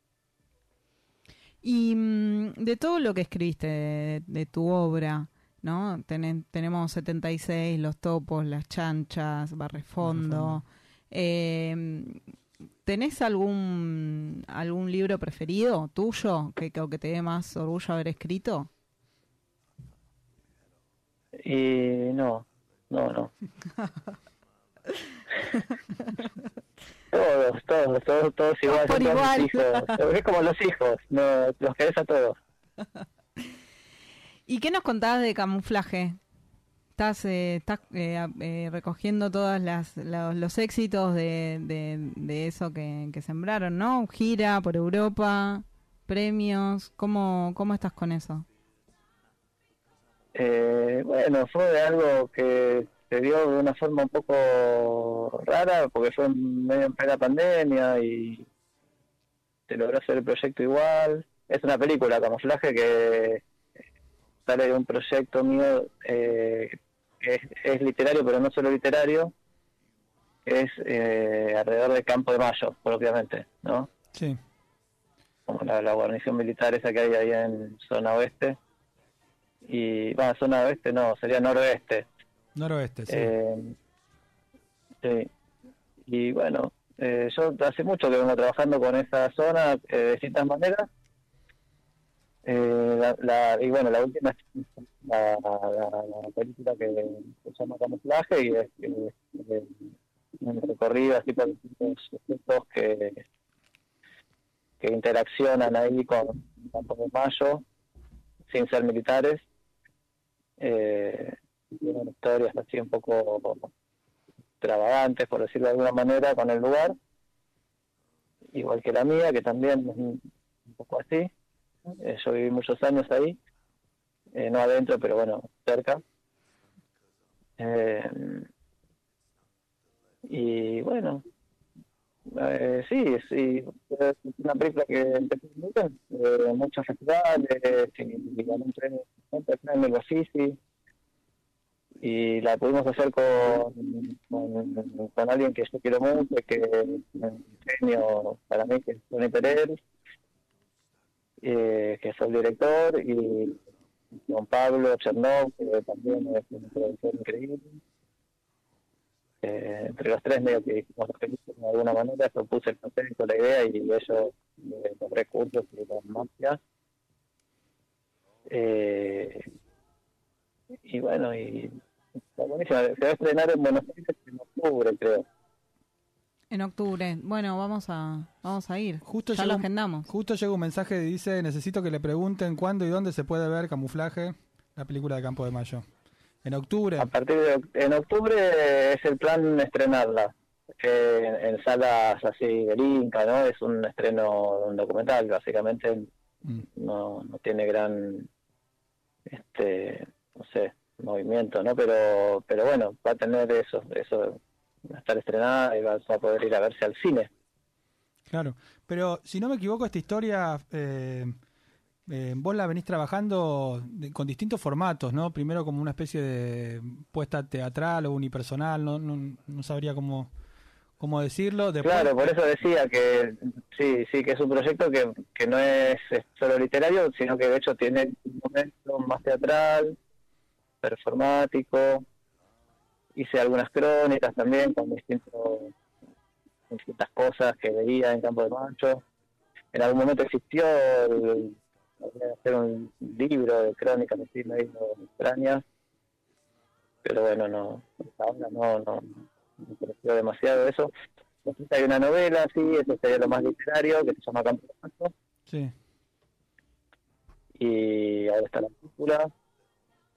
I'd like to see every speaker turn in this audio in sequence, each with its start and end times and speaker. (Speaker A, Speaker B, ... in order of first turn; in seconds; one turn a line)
Speaker A: 1.6-12.2
Speaker B: 10.0-10.6
Speaker A: 12.8-18.7
Speaker C: 21.5-23.3
Speaker A: 25.4-26.3
Speaker C: 27.1-32.4
Speaker A: 28.7-29.9
Speaker A: 34.5-36.2
Speaker A: 37.0-48.5
Speaker C: 50.4-58.5
Speaker C: 59.7-63.4
Speaker C: 64.5-69.3
Speaker C: 70.5-73.9
Speaker B: 74.1-74.4
Speaker C: 75.5-78.6
Speaker C: 79.7-82.1
Speaker B: 82.5-83.3
Speaker C: 83.1-83.8
Speaker C: 85.0-85.3
Speaker C: 86.1-90.9
Speaker C: 92.5-99.7
Speaker C: 100.4-103.2
Speaker C: 104.8-107.6
Speaker C: 108.5-109.4
Speaker C: 110.6-113.7
Speaker C: 114.6-117.0
Speaker C: 118.5-121.3
Speaker C: 122.0-123.4
Speaker C: 124.3-126.0
Speaker C: 127.6-128.5
Speaker C: 130.3-131.2
Speaker C: 132.3-140.6
Speaker C: 142.0-149.8
Speaker C: 151.4-153.6
Speaker C: 154.2-157.8
Speaker C: 159.4-166.6
Speaker C: 168.5-169.5
Speaker C: 170.8-171.8
Speaker C: 172.4-175.2
Speaker A: 176.5-180.1
Speaker B: 179.0-185.9
Speaker B: 186.4-187.1
Speaker C: 187.0-196.1
Speaker C: 196.8-198.3
Speaker C: 199.3-207.3
Speaker B: 208.3-211.4
Speaker B: 212.1-220.3
Speaker B: 221.0-222.2
Speaker C: 221.8-230.0
Speaker C: 230.8-232.0
Speaker C: 233.2-235.7
Speaker C: 236.7-239.0
Speaker C: 239.7-245.6
Speaker C: 247.1-250.9
Speaker C: 251.4-255.1
Speaker B: 255.5-255.7
Speaker C: 257.6-259.3